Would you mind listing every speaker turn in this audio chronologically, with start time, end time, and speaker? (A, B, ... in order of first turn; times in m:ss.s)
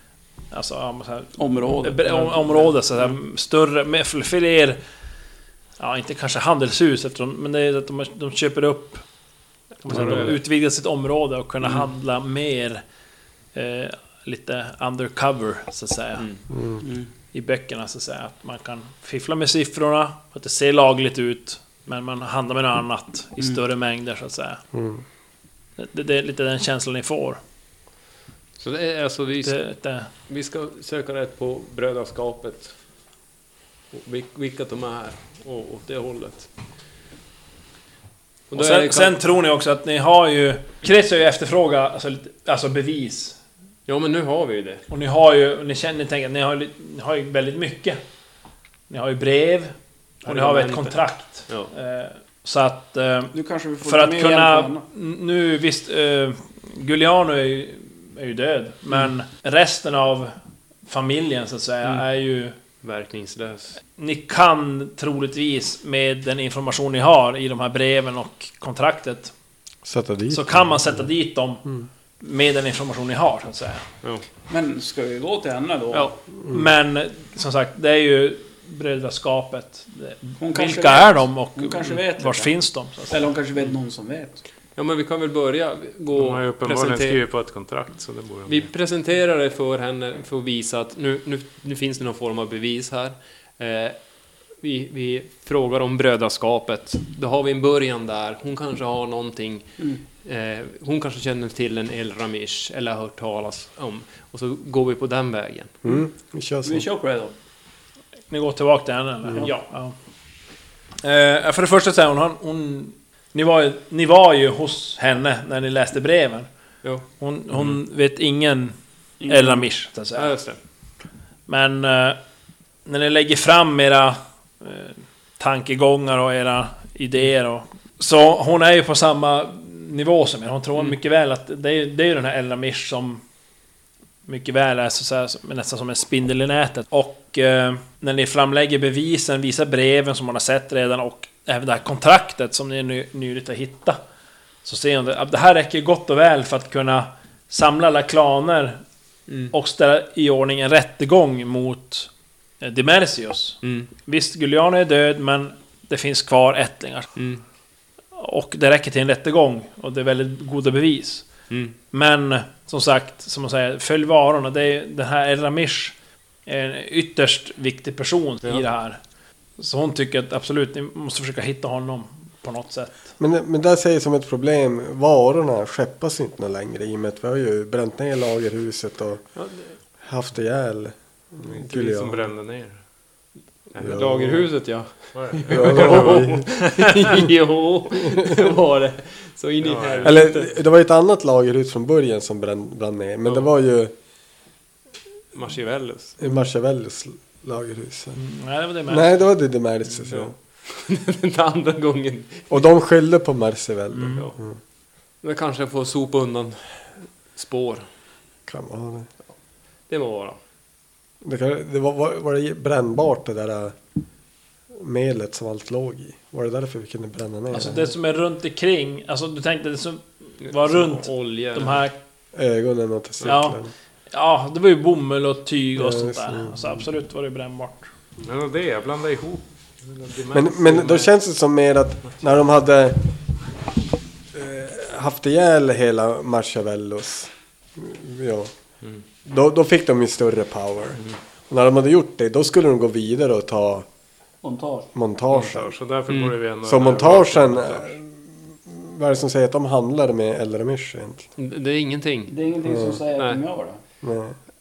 0:00.5-0:04.8 A
0:01.4-0:02.7 B
0:05.8-0:09.0 A
0:09.8-0:10.4 C
0:09.8-0:12.8 A
0:13.5-0:16.2 A
0:16.5-0:16.8 D
0:16.8-0:17.1 B
0:17.3-0:24.6 A
0:24.7-0:25.0 D
0:25.8-0:27.4 A
0:28.6-0:29.6 C
0:29.4-0:30.1 A
0:30.3-0:32.7 C
0:33.9-0:36.5 C
0:38.5-0:39.1 C
0:38.5-0:43.4 A
0:43.9-0:44.8 C
0:44.9-0:48.0 A
0:48.9-1:00.3 A
0:50.2-0:51.7 C
0:53.3-0:54.8 B
1:00.8-1:02.6 A
1:02.8-1:03.8 C
1:04.0-1:09.3 A
1:09.8-1:11.0 D
1:10.3-1:11.6 A
1:12.2-1:13.8 A
1:14.5-1:16.2 B
1:16.4-1:16.7 D
1:16.5-1:23.2 A
1:20.4-1:22.5 B
1:23.1-1:24.4 B
1:24.8-1:27.2 C
1:26.1-1:28.7 E
1:28.5-1:34.0 C
1:34.6-1:45.7 C
1:45.8-1:46.8 D
1:46.6-1:47.3 B
1:48.3-1:49.9 A
1:51.0-1:56.5 A
1:57.2-2:00.3 A
1:59.2-1:59.7 B
2:00.2-2:00.6 C
2:01.5-2:02.2 A
2:02.8-2:13.2 A
2:14.2-2:24.0 A
2:24.6-2:28.8 A
2:29.3-2:29.5 C
2:29.5-2:32.1 A
2:32.6-2:37.1 A
2:33.6-2:33.9 C
2:37.2-2:37.4 C
2:38.1-2:41.3 A
2:41.5-2:41.8 C
2:41.9-2:45.9 A
2:46.4-2:49.0 A
2:49.6-2:53.0 A
2:53.2-2:59.4 D
2:59.4-2:59.7 C
3:00.0-3:02.3 D
3:01.4-3:02.8 E
3:03.8-3:04.0 E
3:03.8-3:10.5 C
3:03.8-3:04.5 D
3:05.1-3:07.1 E
3:05.5-3:06.5 D
3:09.6-3:10.2 E
3:10.0-3:13.9 D
3:15.3-3:16.2 C
3:16.2-3:18.2 D
3:18.2-3:19.2 A
3:18.9-3:20.3 D
3:20.0-3:22.6 C
3:22.5-3:24.6 D
3:24.1-3:24.4 C
3:25.2-3:27.8 C
3:28.5-3:29.1 D
3:29.9-3:30.4 C
3:31.2-3:33.7 D
3:34.7-3:37.9 D
3:37.5-3:42.0 A
3:40.4-3:41.8 C
3:42.3-3:43.7 D
3:43.2-3:43.6 A
3:44.1-3:47.9 A
3:45.8-3:46.8 D
3:48.2-3:51.1 E
3:50.3-3:53.1 D
3:54.3-3:58.5 D
3:59.2-4:03.8 D
4:04.4-4:04.9 B
4:04.9-4:05.8 D
4:05.3-4:08.0 E
4:06.1-4:06.3 C
4:06.6-4:11.3 D
4:11.4-4:12.4 C
4:12.3-4:13.8 B
4:12.6-4:13.0 D
4:13.2-4:13.4 C
4:14.0-4:14.4 D